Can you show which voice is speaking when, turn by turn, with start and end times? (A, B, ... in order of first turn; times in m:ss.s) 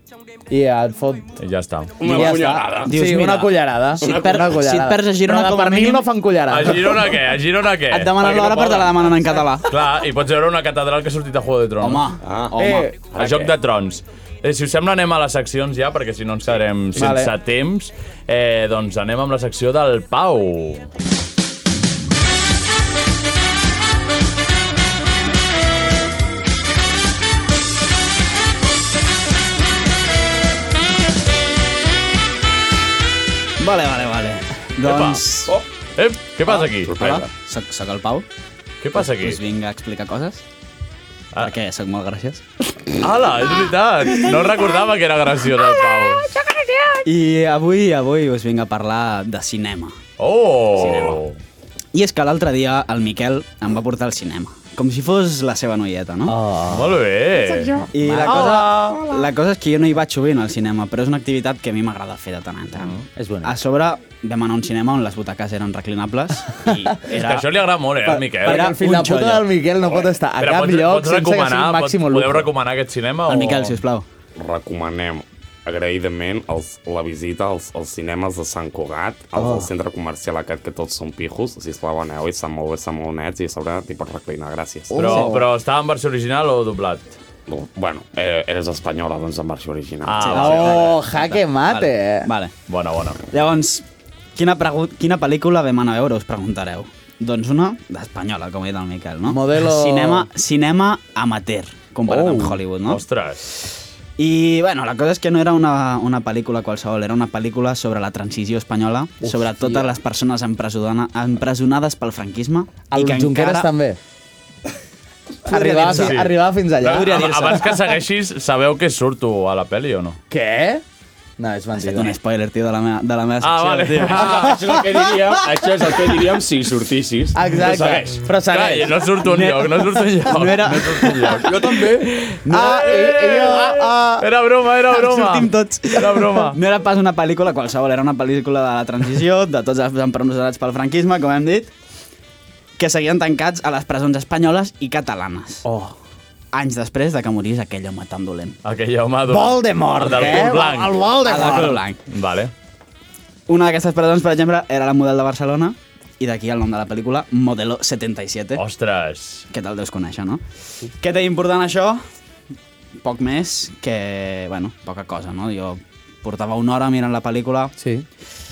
0:00.5-0:01.4 A
0:01.4-0:02.3 B
0:02.0-0:02.9 C
0:02.0-0:07.1 A
0:02.8-0:06.0 D
0:04.0-0:04.4 C
0:06.5-0:09.1 B
0:07.9-0:09.7 D
0:08.4-0:08.8 C
0:09.6-0:12.1 B
0:11.8-0:12.8 D
0:12.2-0:13.5 C
0:12.6-0:13.0 A
0:13.1-0:20.9 B
0:16.9-0:17.3 A
0:33.6-0:35.5 D
0:34.8-0:35.2 B
0:36.0-0:37.2 B
0:36.5-0:38.3 D
0:36.9-0:37.3 C
0:38.8-0:39.4 B
0:39.0-0:40.4 D
0:41.4-0:42.4 D
0:43.0-0:46.4 B
0:47.0-0:50.0 D
0:50.2-0:51.4 B
0:50.7-0:51.2 D
0:51.9-0:56.4 D
0:56.3-0:57.0 A
0:56.7-0:58.7 B
0:57.9-1:07.5 D
0:58.0-0:59.0 A
1:03.2-1:03.6 A
1:07.1-1:08.8 B
1:08.0-1:12.5 A
1:08.4-1:09.5 D
1:10.4-1:13.7 B
1:13.3-1:14.1 D
1:14.4-1:25.3 C
1:19.4-1:19.7 A
1:24.9-1:25.5 A
1:25.0-1:27.2 B
1:27.5-1:30.6 C
1:30.1-1:31.0 B
1:30.2-1:32.5 D
1:30.3-1:32.3 A
1:32.7-1:33.2 B
1:33.3-1:33.8 D
1:34.4-1:43.0 D
1:39.3-1:40.3 A
1:42.1-1:42.6 A
1:42.9-1:43.4 B
1:44.2-1:53.7 D
1:49.2-1:49.9 A
1:52.9-1:54.0 A
1:55.5-1:56.2 D
1:55.5-1:57.7 A
1:55.9-2:00.2 B
1:56.8-1:57.7 D
2:00.3-2:00.8 A
2:01.4-2:02.1 A
2:01.8-2:04.3 D
2:03.4-2:04.6 B
2:04.1-2:08.2 C
2:04.3-2:06.0 A
2:07.3-2:09.1 A
2:07.7-2:16.6 B
2:09.2-2:11.5 D
2:11.5-2:12.1 C
2:12.4-2:13.0 D
2:12.4-2:14.3 A
2:14.9-2:21.7 D
2:22.8-2:25.6 D
2:25.6-2:26.0 A
2:26.5-2:28.6 D
2:28.6-2:31.0 B
2:29.3-2:31.8 A
2:31.2-2:32.0 D
2:32.1-2:32.5 B
2:33.5-2:38.6 D
2:38.6-2:39.5 B
2:39.5-2:40.4 D
2:41.0-2:42.0 D
2:43.0-2:47.7 D
2:47.8-2:48.1 A